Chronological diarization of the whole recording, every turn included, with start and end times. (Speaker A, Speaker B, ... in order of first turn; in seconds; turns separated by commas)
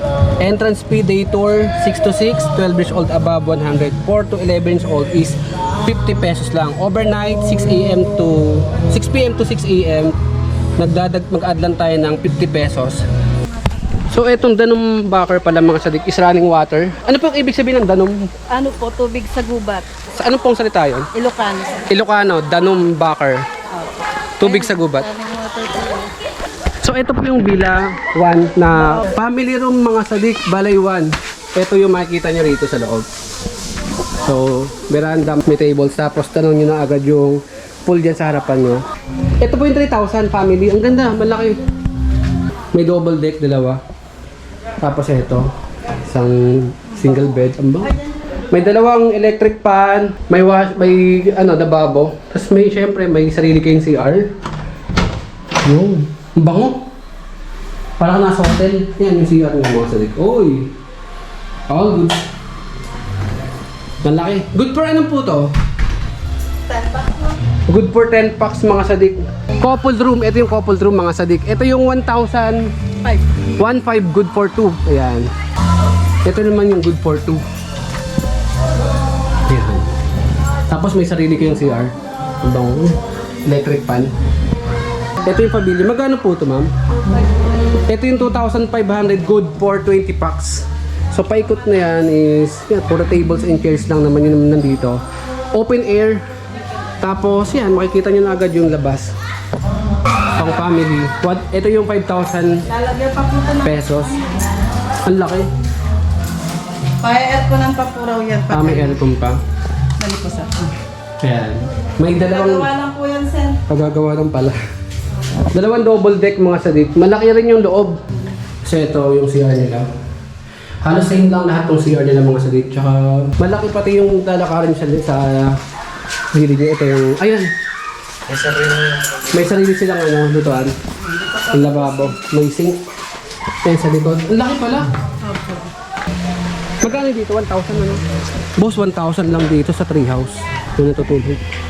Speaker A: 0.4-10.2, Speaker A: 10.8-13.0, Speaker A: 14.1-18.3, Speaker B: 18.5-19.9, Speaker A: 20.1-21.1, Speaker B: 21.1-21.8, Speaker A: 21.9-23.4, Speaker A: 24.4-25.1, Speaker B: 24.4-26.1, Speaker A: 26.8-33.0, Speaker A: 34.2-38.8, Speaker A: 39.4-41.6, Speaker A: 42.7-43.8, Speaker A: 44.8-45.5, Speaker A: 46.0-48.0, Speaker A: 48.5-54.3, Speaker A: 55.6-56.8, Speaker A: 58.0-60.7, Speaker A: 61.7-62.2, Speaker A: 64.0-65.5, Speaker B: 66.7-67.3, Speaker A: 67.7-72.7, Speaker A: 73.6-75.3, Speaker A: 76.2-77.4, Speaker A: 79.5-79.9, Speaker A: 80.7-84.1, Speaker A: 85.2-86.7, Speaker A: 87.9-95.0, Speaker A: 95.5-96.2, Speaker A: 97.0-99.1, Speaker A: 100.3-102.7, Speaker B: 102.7-103.7, Speaker A: 103.6-104.2, Speaker A: 105.0-105.5, Speaker B: 107.0-109.0, Speaker A: 108.5-109.4, Speaker B: 110.0-110.7, Speaker A: 111.2-112.7, Speaker B: 112.3-113.6, Speaker A: 113.7-114.6, Speaker A: 115.5-118.0, Speaker A: 118.6-119.9, Speaker A: 120.8-125.6, Speaker A: 126.3-127.5, Speaker A: 128.3-130.7, Speaker A: 131.4-132.8, Speaker A: 133.6-134.9, Speaker A: 136.8-138.0, Speaker A: 138.6-141.4